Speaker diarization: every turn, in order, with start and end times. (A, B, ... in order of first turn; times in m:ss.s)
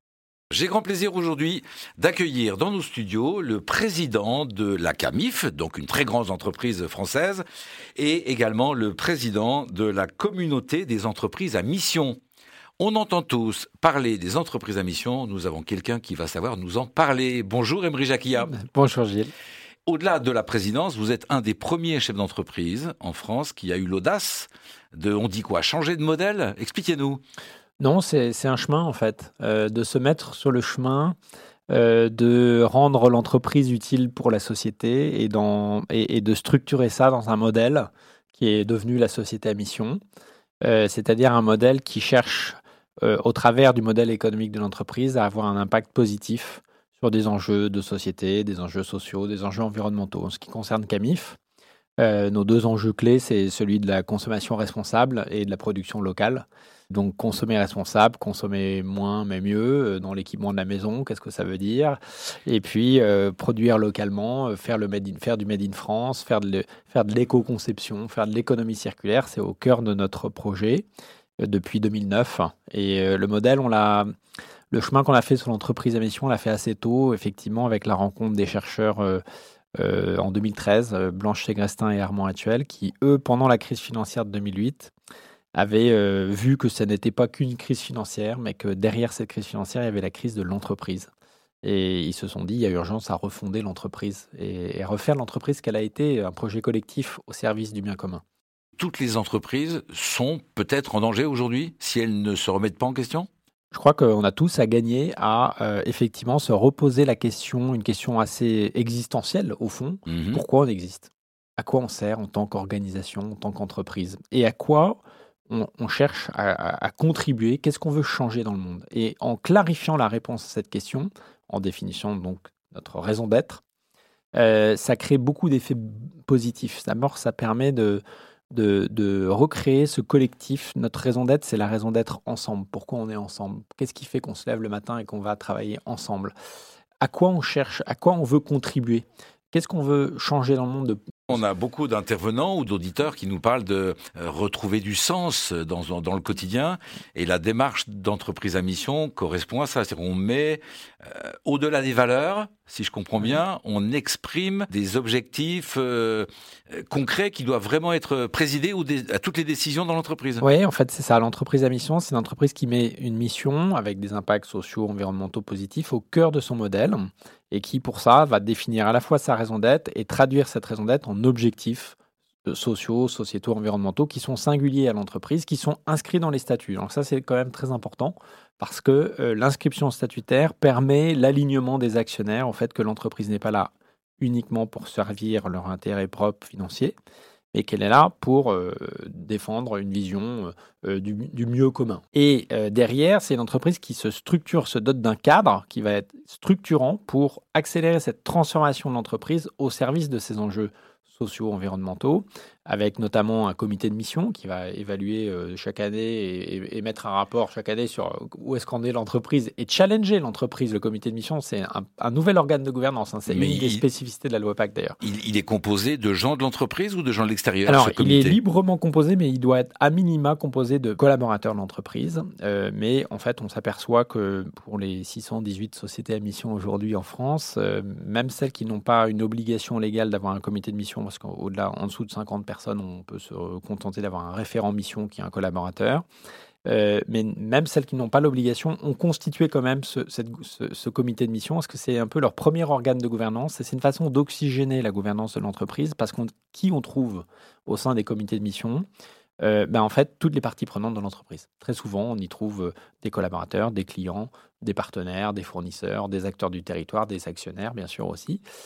0:00.5-0:07.4 A
0:08.0-0:12.2 A
0:12.8-0:18.5 A
0:18.5-0:19.3 B
0:19.9-0:27.2 A
0:27.8-0:31.2 B
0:31.7-0:40.0 B
0:40.6-0:51.4 B
0:52.0-1:10.9 B
1:11.4-1:14.1 B
1:14.7-1:19.2 B
1:19.8-1:24.9 B
1:25.5-1:31.1 B
1:31.6-1:38.2 B
1:38.8-1:43.3 A
1:43.7-2:03.6 B
1:50.1-1:50.4 A
2:04.3-2:16.4 B
2:17.0-2:21.1 B
2:21.3-2:40.4 A
2:40.4-3:07.0 B
3:07.5-3:35.0 B
3:33.3-3:33.8 A
3:35.0-3:38.4 A
3:37.7-3:56.0 B
3:56.6-4:08.8 B
4:09.4-4:18.4 B